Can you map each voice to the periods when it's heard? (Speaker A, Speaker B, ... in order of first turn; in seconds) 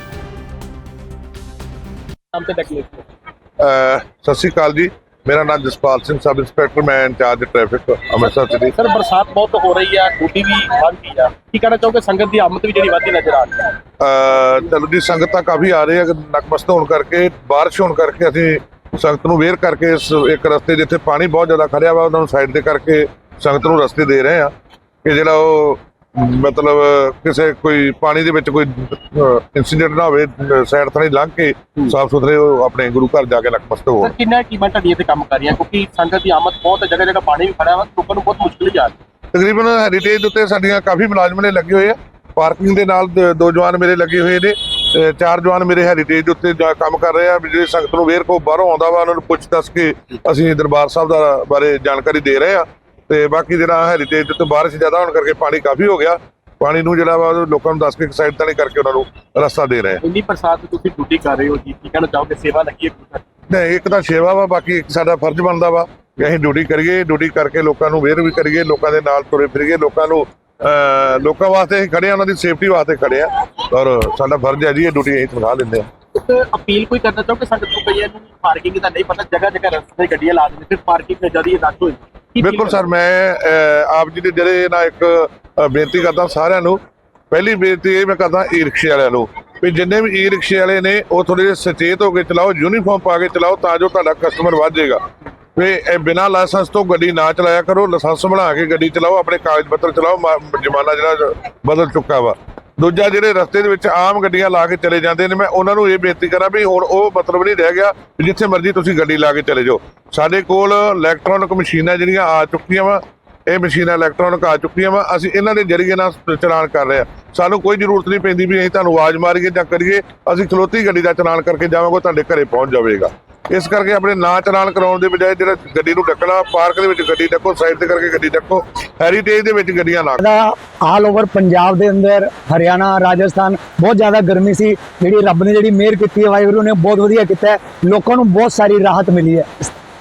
Speaker A: 2.3-3.1, 8.2-13.7, 34.0-38.9, 60.0-63.2, 76.1-82.8
Speaker B: 3.6-8.7, 14.0-24.5, 25.0-34.1, 39.3-60.0, 63.5-75.9, 82.4-95.0, 95.5-130.2
Speaker C: 130.2-139.7